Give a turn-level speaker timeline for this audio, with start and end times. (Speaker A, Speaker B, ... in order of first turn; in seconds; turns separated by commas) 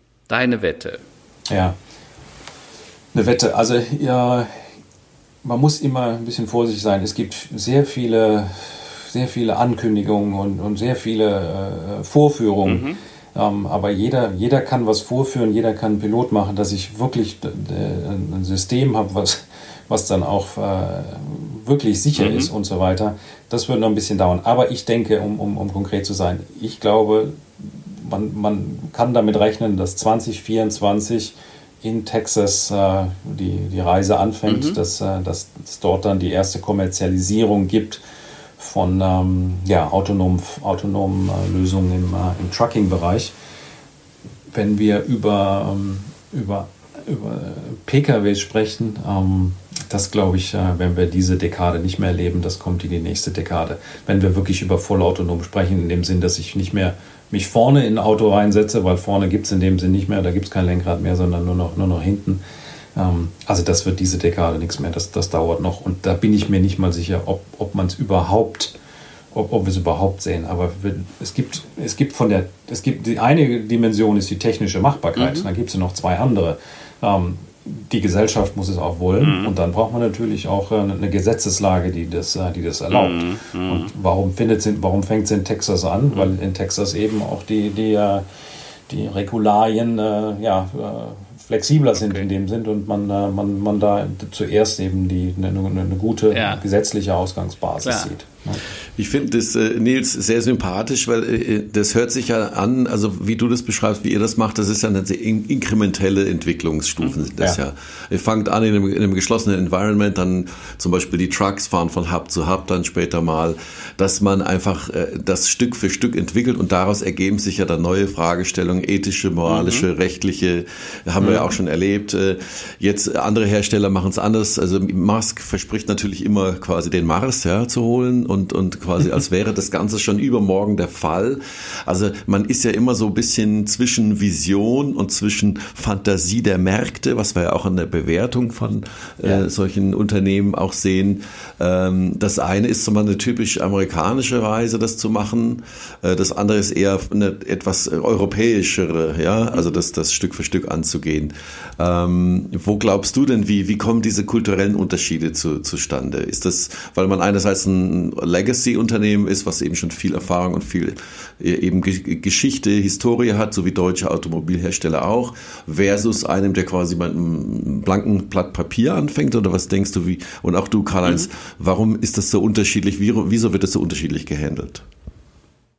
Speaker A: 0.3-1.0, Speaker B: 1.5-1.8, Speaker B: 3.1-4.7, Speaker B: 5.4-38.0, Speaker A: 12.7-13.0, Speaker A: 22.1-22.5, Speaker A: 34.5-34.8, Speaker B: 38.6-43.3, Speaker B: 44.5-62.4, Speaker B: 62.9-68.7, Speaker B: 69.3-88.2, Speaker A: 75.2-75.5, Speaker A: 79.2-79.5, Speaker A: 82.9-83.9, Speaker B: 88.9-98.6, Speaker A: 92.0-92.2, Speaker A: 96.3-96.6, Speaker A: 97.8-98.1, Speaker C: 99.0-174.8, Speaker A: 119.5-119.9